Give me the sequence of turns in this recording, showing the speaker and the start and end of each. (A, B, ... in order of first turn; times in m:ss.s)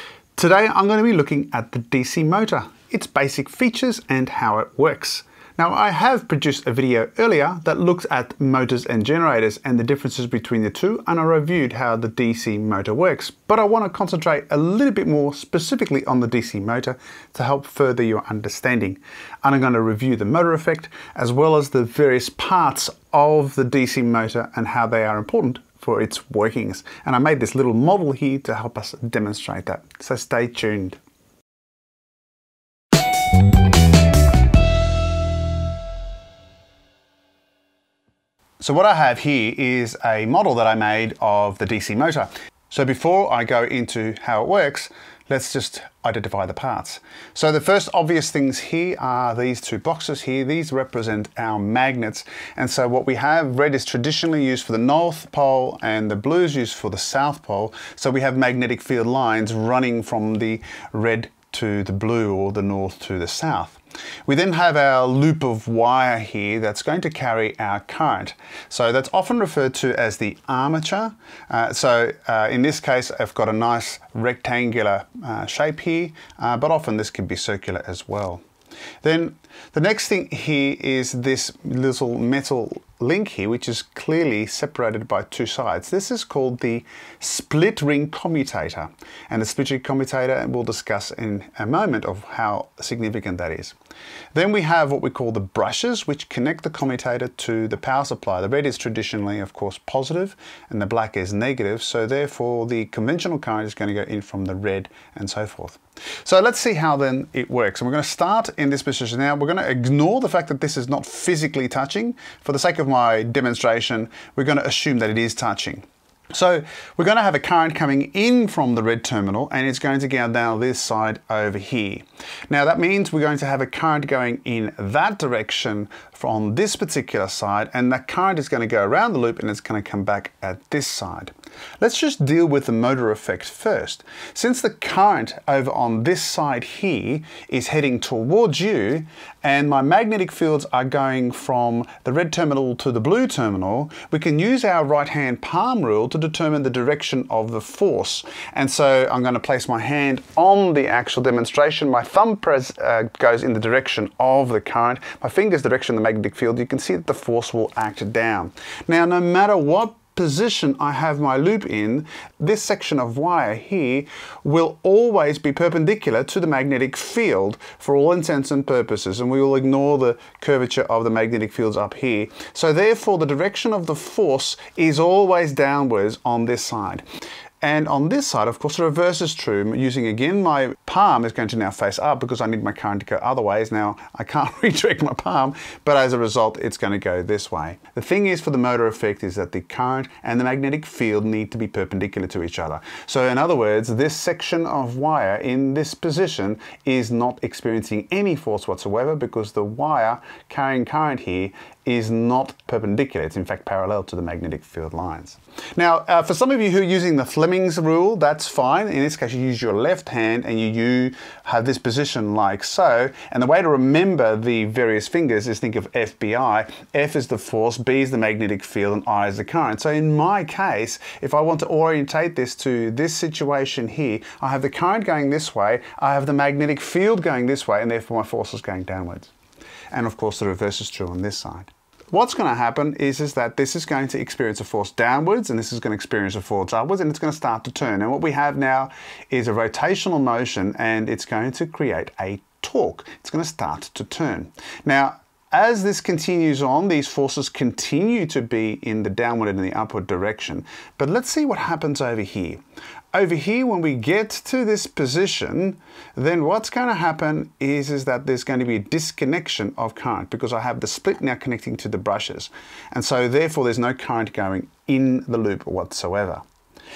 0:00.4-0:31.0 A
0:38.6-1:18.4 A
1:19.0-1:33.7 A
1:34.3-2:57.0 A
2:57.6-3:49.3 A
3:49.9-4:12.6 A
4:13.1-4:26.4 A